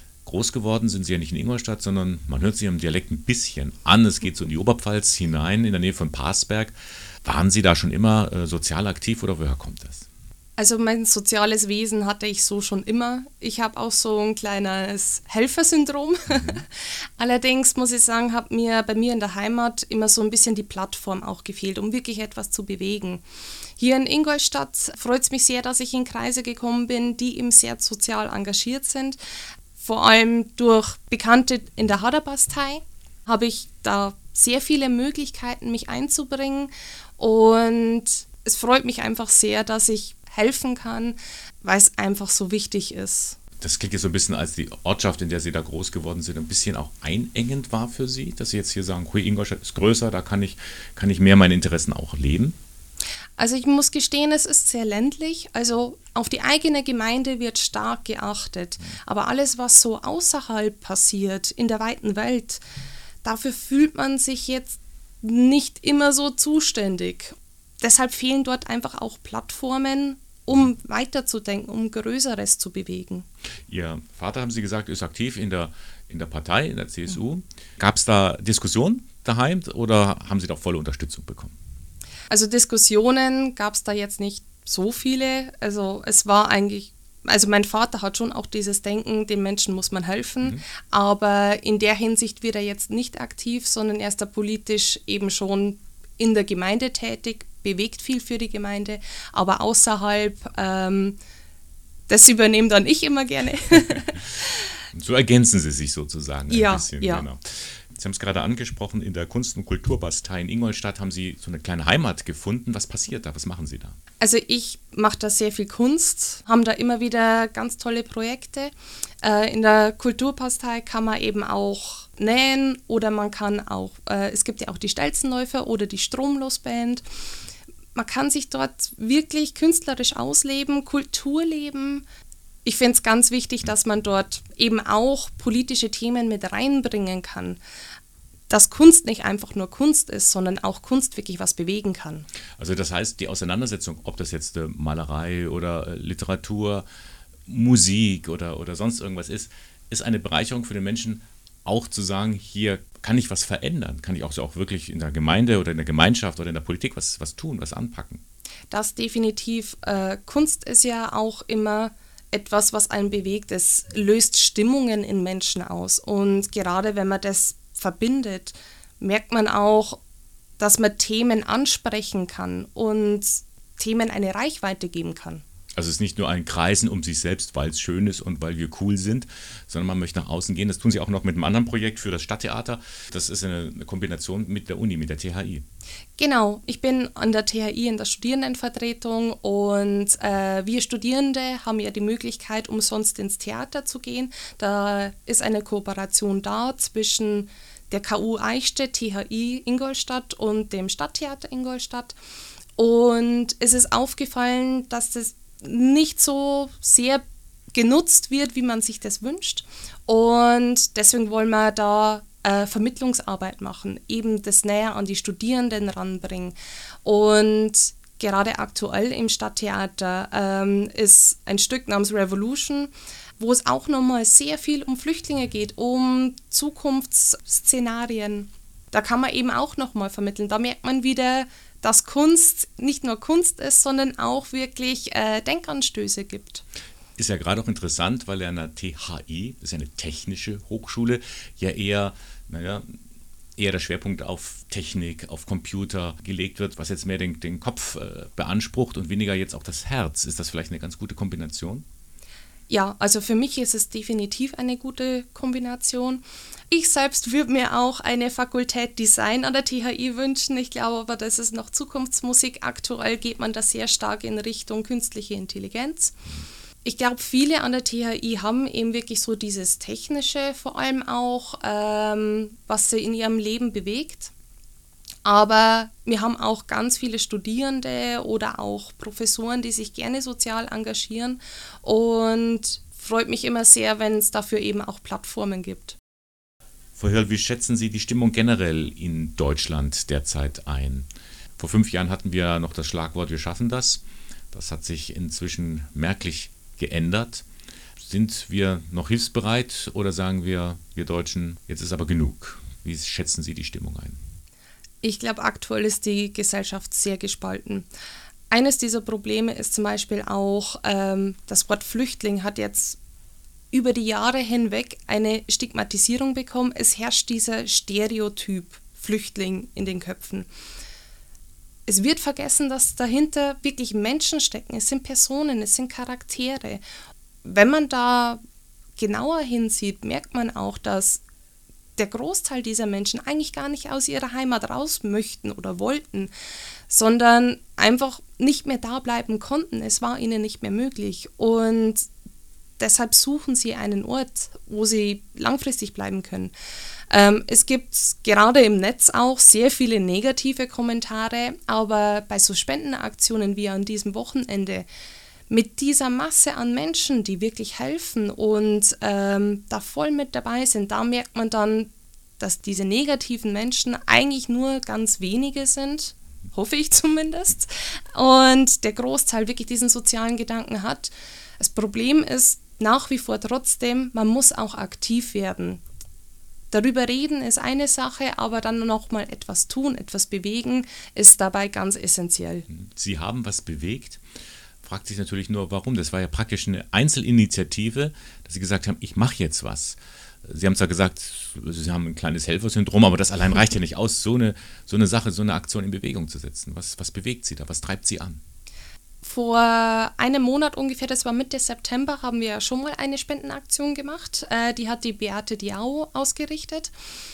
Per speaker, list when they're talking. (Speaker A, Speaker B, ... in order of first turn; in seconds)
Speaker A: 0.2-10.1, 16.3-16.6, 43.6-52.6, 73.7-81.5, 104.9-114.0, 142.6-146.9, 147.5-158.2, 175.8-185.6, 237.2-243.0, 243.6-251.8, 287.0-291.1, 291.6-297.4, 298.0-304.2, 382.7-384.2, 384.8-398.4
Speaker B: 10.6-23.2, 23.8-29.2, 29.8-43.4, 53.4-62.6, 63.2-73.3, 82.3-101.2, 102.1-104.5, 106.5-107.3, 114.2-127.0, 128.0-132.1, 132.7-137.6, 138.5-142.3, 158.7-170.0, 170.6-175.4, 186.2-202.2, 202.8-236.6, 252.7-266.2, 266.8-274.3, 275.2-286.0, 305.0-307.9, 308.5-313.0, 313.7-320.5, 321.9-326.8, 327.4-328.4, 329.0-331.2, 332.0-336.3, 336.9-342.1, 342.8-346.5, 347.1-354.9, 355.5-375.8, 376.7-382.7, 399.2-406.9